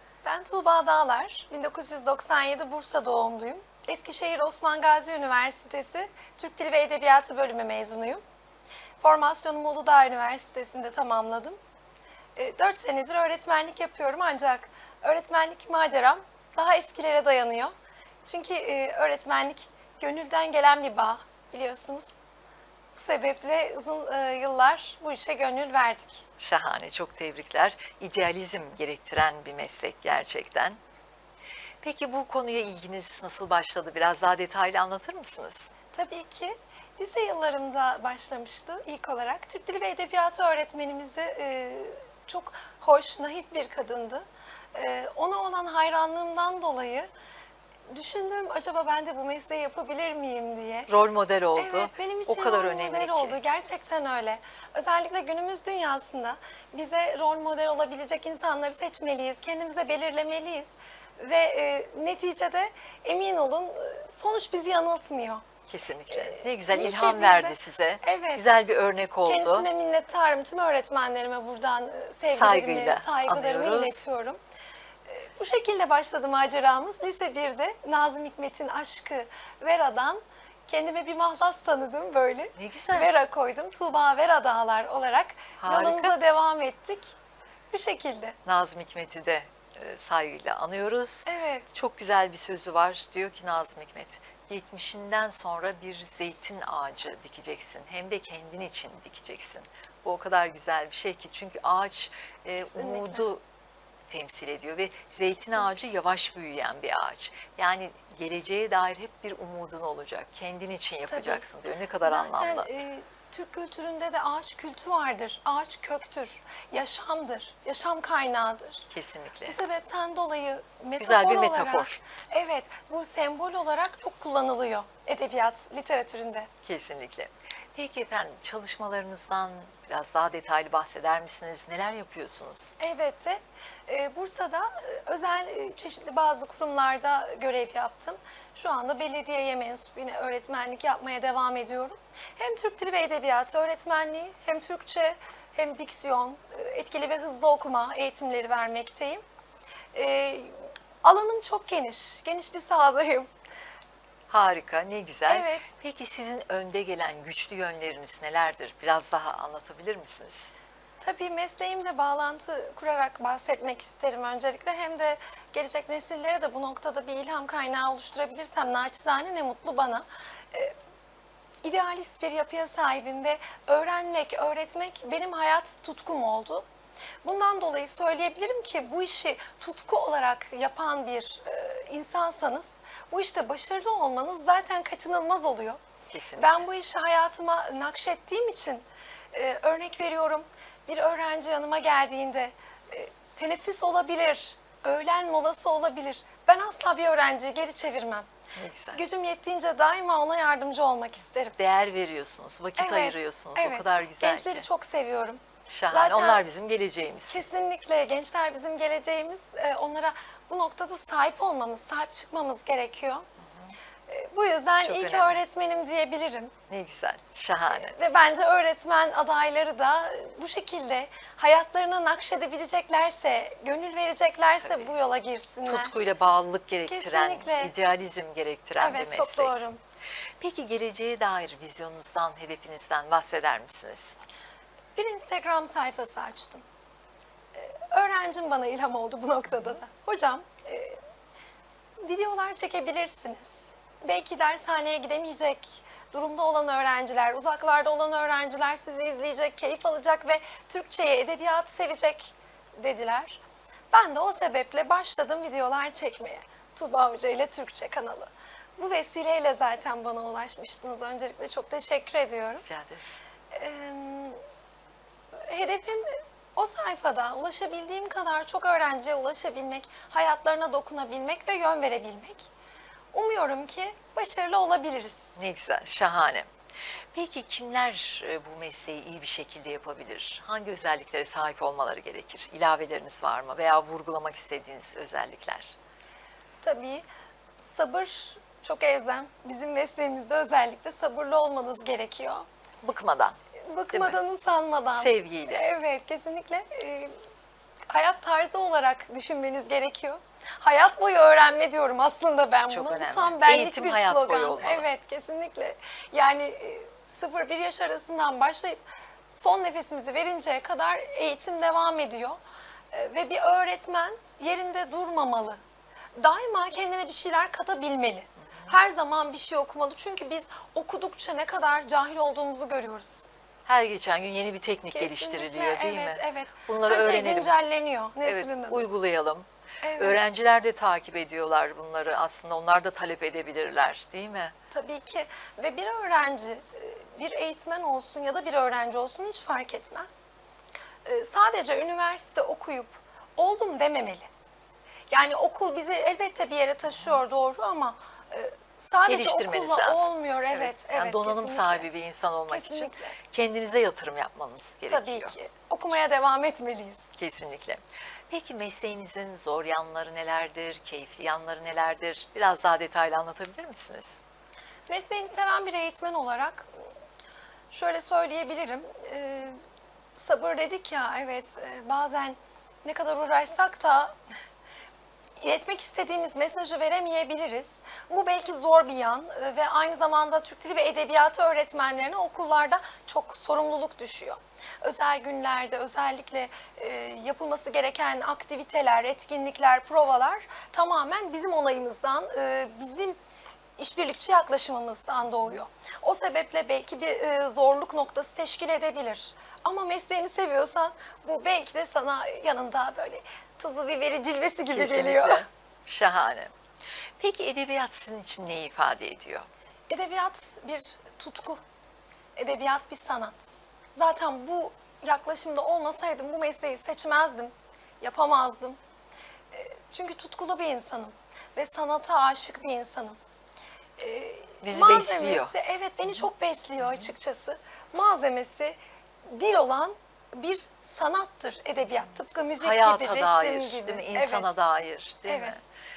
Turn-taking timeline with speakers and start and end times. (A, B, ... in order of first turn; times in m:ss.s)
0:00.2-0:08.2 A
0:09.0-0:11.6 A
0:12.4-0:17.7 A
0:18.2-0:22.2 A
0:22.9-0:26.2 A
0:26.4-0:30.8 B
0:31.8-0:35.7 B
0:35.9-0:47.1 A
0:47.9-0:50.9 A
0:50.9-0:53.4 B
0:51.6-1:05.4 A
1:05.7-1:09.7 B
1:06.1-1:08.4 A
1:09.2-1:14.4 A
1:12.3-1:14.1 B
1:15.1-1:27.2 A
1:22.6-1:23.1 B
1:25.6-1:26.1 B
1:27.7-1:28.4 A
1:28.5-1:43.4 B
1:31.3-1:31.7 A
1:42.8-1:43.2 A
1:44.1-1:52.7 B
1:51.1-1:51.4 A
1:52.0-1:58.9 A
1:58.9-1:59.6 B
1:59.5-2:06.5 A
2:01.0-2:02.0 B
2:06.6-2:12.8 B
2:12.8-2:29.2 A
2:29.9-2:33.3 A
2:34.3-2:40.5 B
2:35.3-2:35.7 A
2:41.0-2:50.8 A
2:51.6-2:56.7 A
2:57.2-3:05.8 A
3:06.1-3:06.6 B
3:06.4-3:18.3 A
3:18.6-3:19.0 B
3:18.9-3:21.6 A
3:21.6-3:24.7 B
3:22.8-3:26.4 A
3:25.7-3:27.4 B
3:27.3-3:33.3 A
3:34.1-3:36.5 A
3:34.8-3:35.4 B
3:36.7-3:38.0 B
3:37.7-3:45.9 A
3:44.6-3:44.9 B
3:45.7-3:49.6 B
3:46.9-3:47.7 A
3:48.8-3:49.8 A
3:50.4-3:54.2 B
3:55.0-3:56.6 A
3:57.5-4:01.0 A
4:02.0-4:22.7 A
4:22.6-4:23.2 B
4:23.5-4:24.4 A
4:25.5-4:32.5 A
4:33.1-4:35.3 A
4:35.4-4:36.5 B
4:37.1-4:45.8 B
4:46.6-4:47.0 A
4:47.6-4:52.5 A
4:52.8-4:53.4 B
4:53.6-4:57.2 A
4:53.9-4:54.2 B
4:54.9-4:55.7 B
4:57.9-5:12.4 A
5:02.7-5:04.9 B
5:12.9-5:15.6 A
5:16.2-5:23.3 A
5:23.7-5:27.6 B
5:24.9-5:28.8 A
5:28.2-5:34.5 B
5:29.8-5:30.2 A
5:34.7-5:40.3 A
5:41.0-5:44.3 A
5:45.1-5:51.9 A
5:49.1-5:55.3 B
5:52.5-5:53.2 A
5:54.9-5:57.0 A
5:57.2-6:04.2 B
6:04.9-6:06.7 A
6:07.7-6:09.6 A
6:10.2-6:14.2 A
6:15.4-6:33.2 A
6:33.8-6:45.4 A
6:44.7-6:46.5 B
6:47.2-6:49.5 B
6:49.9-6:51.6 A
6:52.4-6:58.8 A
6:59.5-7:03.2 A
7:04.0-7:14.5 A
7:04.6-7:05.5 B
7:12.6-7:15.6 B
7:15.3-7:15.6 A